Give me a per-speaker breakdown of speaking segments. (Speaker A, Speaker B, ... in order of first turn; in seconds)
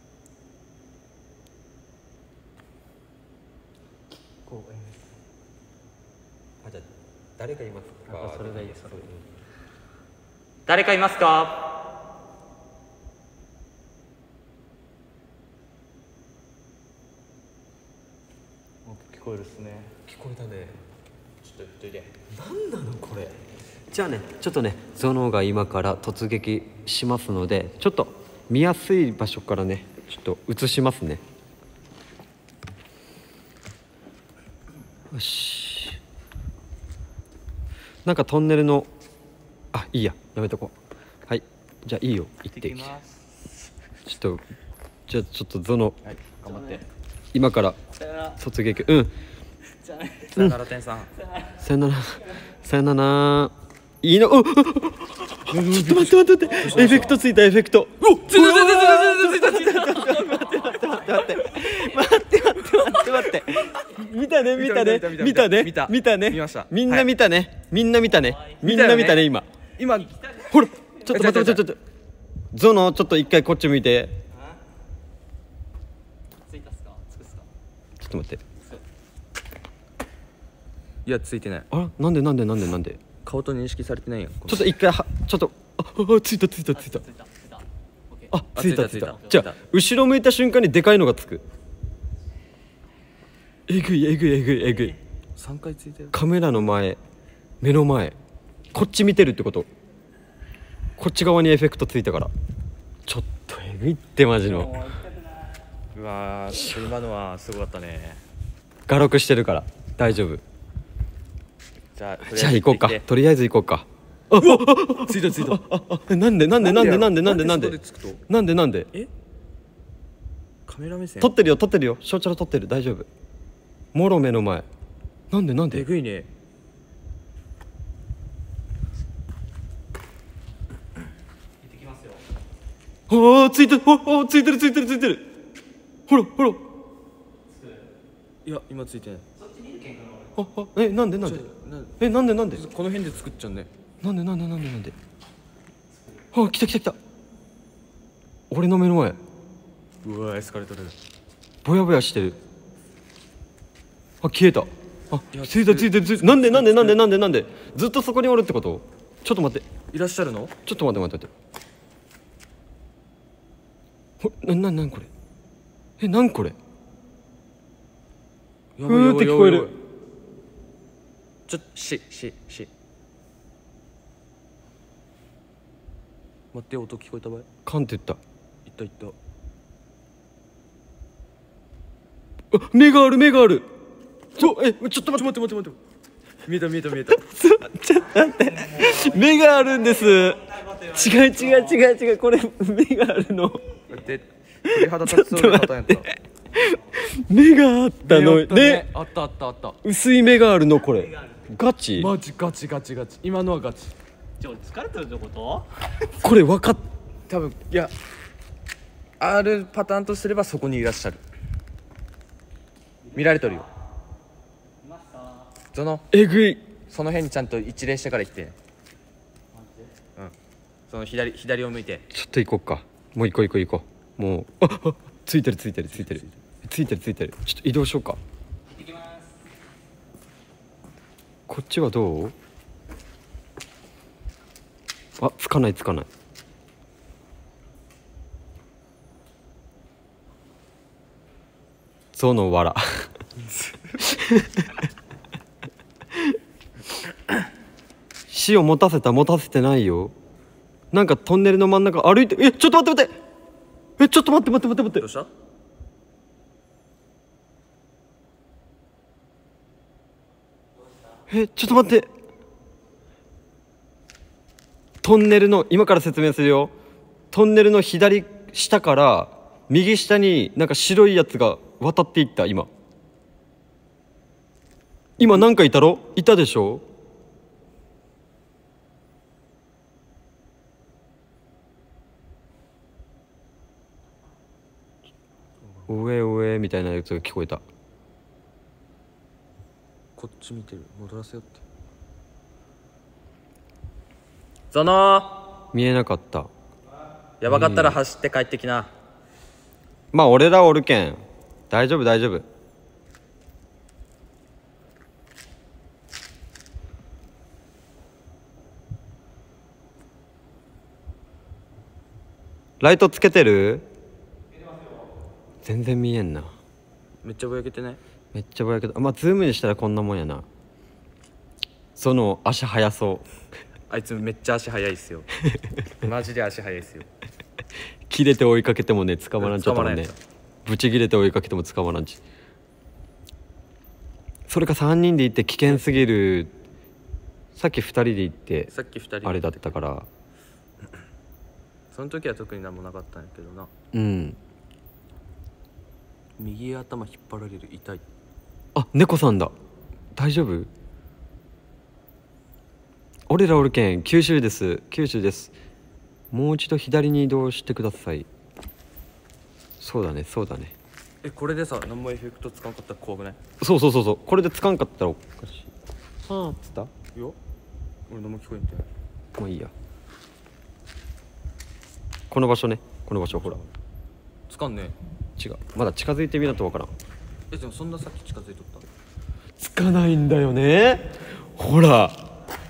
Speaker A: 4.4-5.1, 8.1-9.1, 10.7-11.7, 18.8-19.9, 42.5-43.2, 46.5-46.8, 48.0-48.4, 49.8-50.5, 51.2-51.6, 56.6-57.0, 58.4-62.1, 62.6-63.1, 68.2-68.6, 69.9-70.6, 76.5-77.5, 86.7-88.3, 104.5-105.6, 131.6-132.2, 137.5-137.8, 139.3-140.3, 145.9-146.2, 188.4-191.8, 200.9-201.4, 204.4-206.1, 214.8-215.5, 219.5-219.9, 228.7-229.3
Speaker B: 6.6-9.2, 20.1-20.8, 22.3-23.4, 23.9-31.2, 35.1-36.0, 38.0-38.9, 39.7-40.7, 41.3-42.9, 44.0-44.4, 45.1-46.0, 47.3-47.8, 48.3-49.1, 51.6-69.5, 70.5-71.8, 72.5-74.2, 78.0-78.4, 81.7-83.0, 84.5-87.0, 88.3-91.4, 93.7-95.0, 96.1-97.0, 97.6-98.2, 98.7-99.7, 101.0-102.3, 103.0-105.0, 108.9-110.4, 112.3-117.8, 118.3-118.9, 121.2-123.1, 123.9-124.7, 125.3-125.9, 133.1-135.2, 136.1-136.6, 140.3-141.4, 142.0-142.6, 144.0-144.9, 146.3-147.0, 148.5-149.2, 151.6-152.4, 154.2-159.7, 160.6-161.3, 164.2-165.1, 166.0-166.6, 168.8-169.7, 177.6-178.2, 182.5-183.7, 184.3-185.3, 187.1-193.6, 194.7-198.8, 199.8-202.1, 206.2-206.8, 216.1-216.7, 222.1-228.2, 231.5-232.3, 235.2-236.1, 242.1-243.1, 244.0-244.8, 248.3-250.1, 250.9-253.1, 254.0-255.1, 261.3-262.1, 265.0-266.7, 267.3-272.7, 275.2-276.8, 285.9-287.6, 295.7-296.5, 297.4-298.0, 300.1-302.4, 312.8-313.9, 315.6-316.5, 318.3-320.4, 321.9-323.2, 328.1-330.1, 330.6-332.2, 334.5-336.5, 337.6-338.7, 339.2-340.1, 343.9-344.4, 348.7-349.5, 350.1-350.7, 353.3-355.5, 356.3-358.3, 359.8-360.7, 363.6-365.7, 366.2-366.9, 369.4-369.7, 372.3-373.6, 375.4-376.9, 379.6-382.2
Speaker C: 21.4-22.1, 46.0-46.8, 50.3-51.1, 55.5-57.2, 58.0-59.7, 64.4-67.1, 68.6-69.2, 69.8-70.2, 71.0-71.6, 81.0-81.7, 83.2-84.7, 88.5-89.6, 95.3-96.2, 105.9-108.2, 111.9-113.0, 114.3-115.6, 116.6-118.2, 120.7-121.4, 125.7-126.3, 138.4-139.2, 141.2-142.0, 142.5-143.7, 150.0-150.9, 155.3-157.0, 159.9-160.5, 168.8-169.8, 171.5-172.7, 176.5-177.5, 178.7-179.1, 185.1-185.8, 186.4-187.2, 193.9-196.1, 198.0-199.8, 202.0-203.9, 207.3-207.9, 209.2-211.2, 213.1-213.7, 215.7-216.1, 216.9-218.6, 220.9-222.1, 225.9-226.3, 255.0-255.3, 285.6-285.9, 290.1-291.6, 294.7-295.4, 297.4-298.9, 317.2-318.0, 323.9-325.3, 326.0-327.1, 329.4-330.2, 338.7-339.6, 341.9-343.7, 346.4-348.0, 361.2-363.4, 368.1-368.9, 373.3-373.7, 374.5-375.0, 377.5-378.8